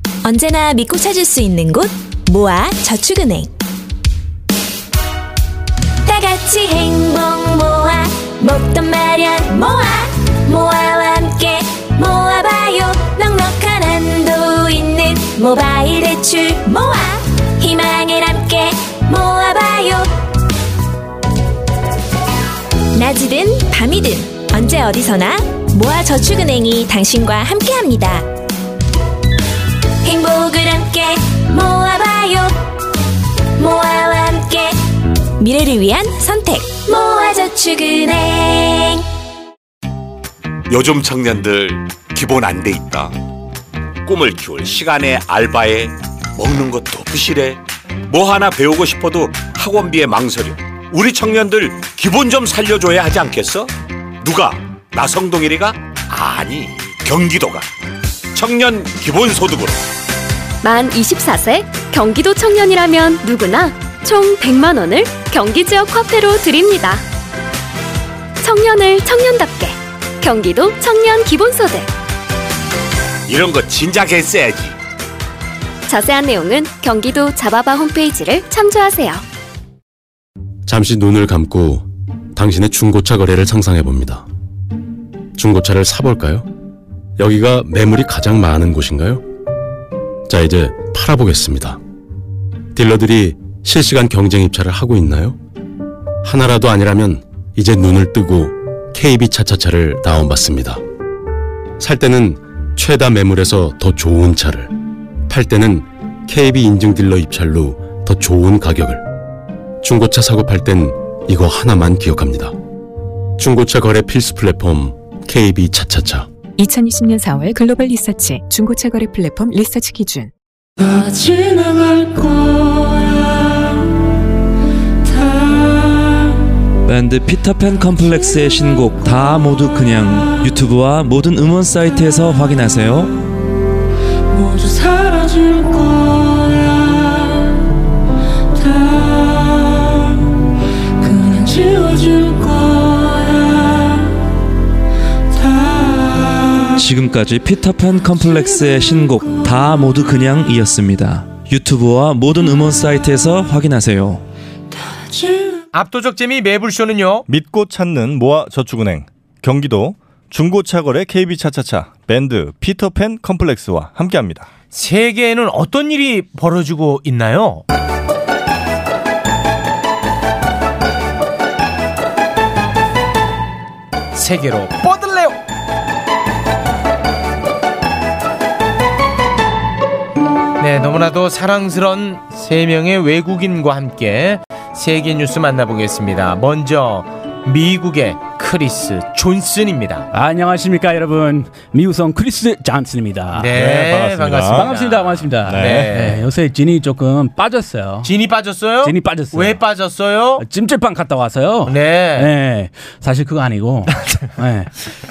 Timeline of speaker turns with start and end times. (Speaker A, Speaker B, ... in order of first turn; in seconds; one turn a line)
Speaker A: 0.2-3.5
Speaker A: 6.0-20.1
Speaker A: 22.9-28.3
Speaker A: 30.0-32.7
Speaker A: 33.6-39.0
Speaker B: 40.7-43.1
Speaker B: 44.0-57.7
Speaker B: 58.3-59.8
Speaker C: 60.6-67.0
Speaker C: 68.4-71.9
Speaker B: 73.3-74.8
Speaker C: 75.9-79.2
Speaker D: 80.7-84.2
Speaker D: 85.4-86.5
Speaker D: 87.2-89.2
Speaker D: 90.3-91.8
Speaker D: 92.8-95.4
Speaker D: 96.2-100.8
Speaker D: 101.8-104.8
Speaker D: 105.3-109.1
Speaker D: 109.8-112.5
Speaker D: 113.4-116.3
Speaker E: 116.6-120.3
Speaker F: 120.9-122.1
Speaker G: 126.9-133.2
Speaker F: 134.3-136.1
Speaker F: 141.0-143.2
Speaker G: 146.7-154.2
Speaker H: 155.7-157.3
Speaker I: 157.3-164.5
Speaker H: 164.7-167.6
Speaker H: 174.2-175.4
Speaker H: 180.6-190.1
Speaker J: 190.1-193.5
Speaker H: 193.3-196.2
Speaker I: 193.5-194.7
Speaker J: 194.5-198.1
Speaker I: 195.5-196.0
Speaker H: 198.0-200.4
Speaker J: 198.8-199.6
Speaker J: 200.4-204.7
Speaker H: 201.7-202.3